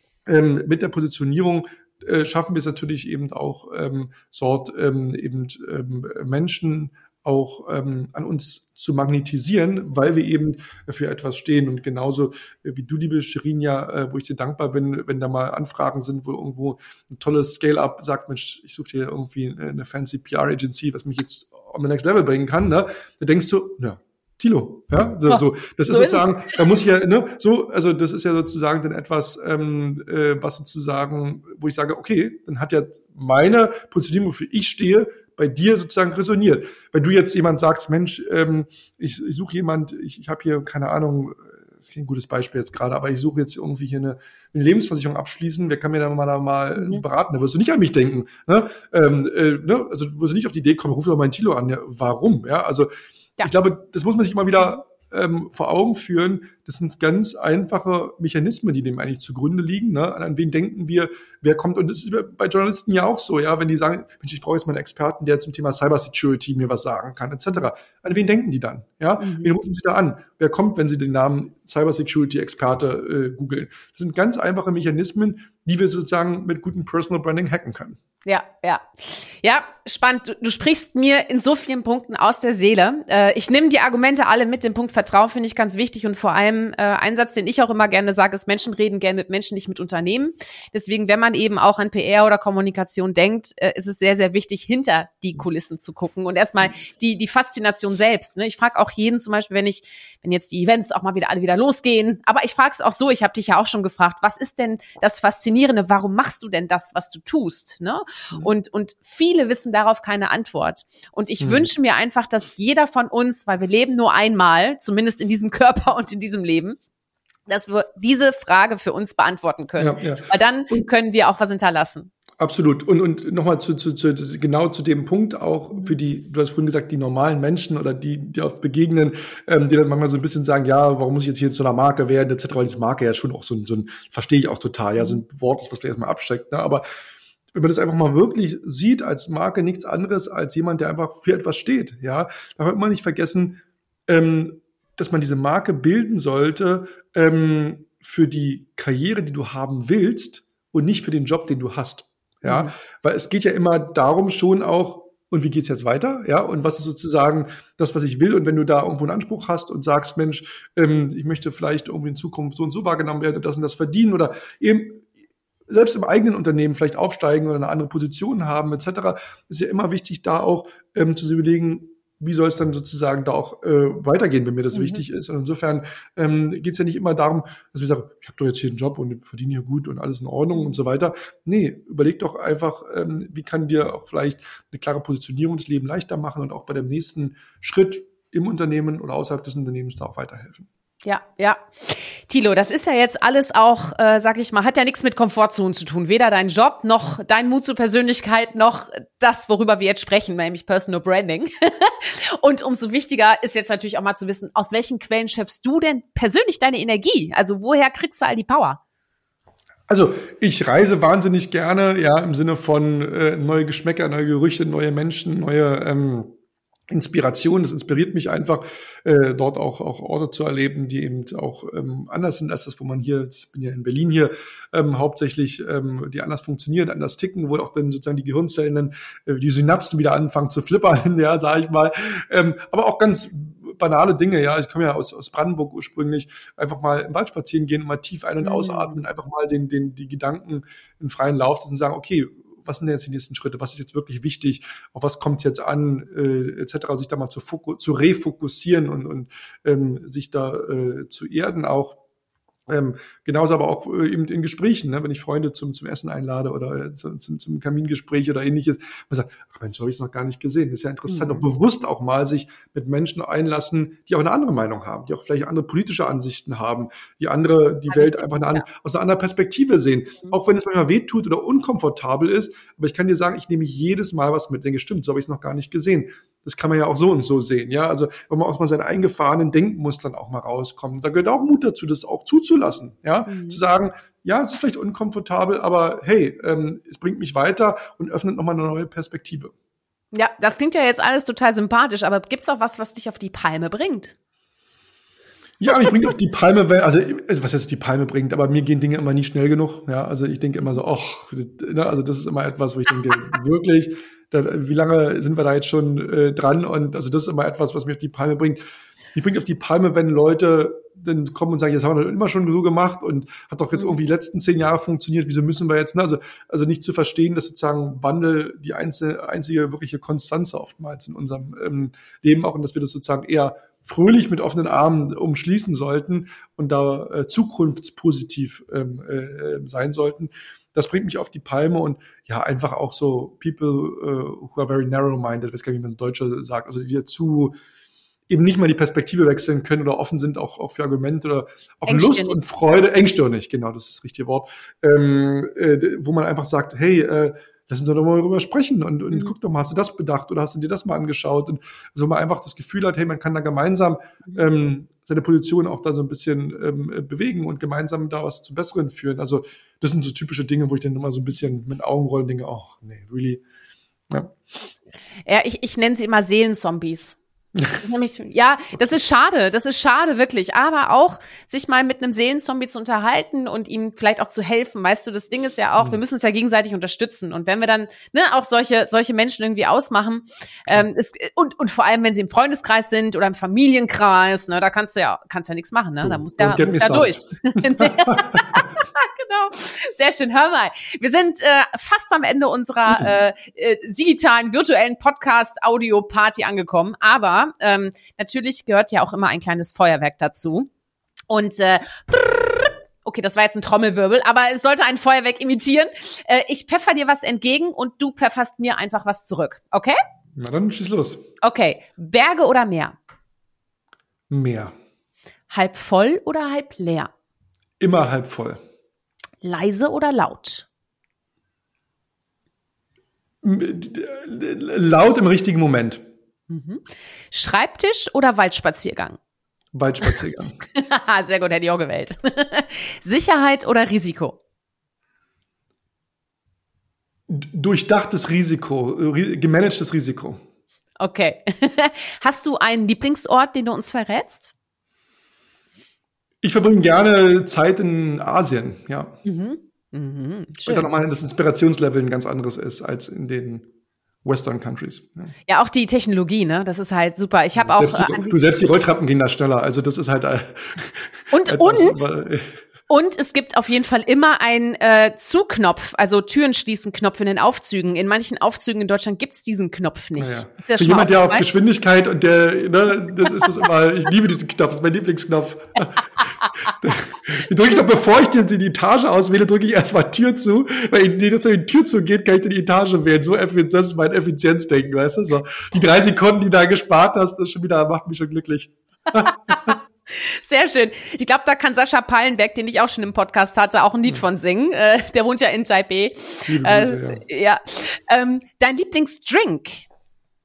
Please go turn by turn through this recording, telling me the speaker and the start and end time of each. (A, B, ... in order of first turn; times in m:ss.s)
0:00.3-0:52.9 A
0:25.3-0:26.6 B
0:46.8-0:47.0 B
0:53.4-1:18.0 A
1:09.2-1:09.5 B
1:18.3-1:56.8 B
1:51.4-1:51.7 A
1:57.5-2:02.1 B
1:59.8-2:00.8 A
2:02.4-2:16.8 A
2:17.5-2:45.1 A
2:32.4-2:32.7 B
2:45.7-3:10.7 A
2:54.7-2:55.0 B
3:00.5-3:00.8 B
3:11.0-3:28.8 B
3:29.9-3:36.3 A
3:36.9-4:12.0 A
3:58.4-3:59.0 B
4:12.7-4:49.5 A
4:21.1-4:21.5 B
4:27.9-4:28.7 B
4:43.3-4:43.6 B
4:50.1-4:54.1 B
4:55.6-5:08.6 A
4:55.7-4:56.1 B
5:09.2-5:37.5 A
5:38.3-6:03.4 A
5:41.9-5:42.4 B
6:04.1-6:04.4 A
6:05.3-6:07.2 B
6:07.6-6:07.8 A
6:07.8-6:40.7 B
6:26.0-6:28.6 A
6:41.3-6:50.0 B
6:50.4-6:51.3 A
6:51.4-6:53.0 B
6:54.3-6:54.7 A
6:55.5-6:57.1 B
6:57.8-6:58.6 A
6:59.4-7:00.7 B
7:03.4-7:06.0 A
7:06.5-7:09.2 B
7:09.7-7:10.6 A
7:10.8-7:14.4 B
7:17.3-7:20.4 A
7:21.0-7:24.5 B
7:26.4-7:29.2 A
7:29.2-7:30.9 B
7:30.7-7:33.7 A
7:34.2-7:35.3 A
7:35.5-7:38.4 B
7:37.6-7:42.6 A
7:41.3-7:42.1 B
7:42.9-7:51.5 B
7:50.2-8:09.8 A
8:09.5-8:19.9 B
8:16.5-8:17.2 A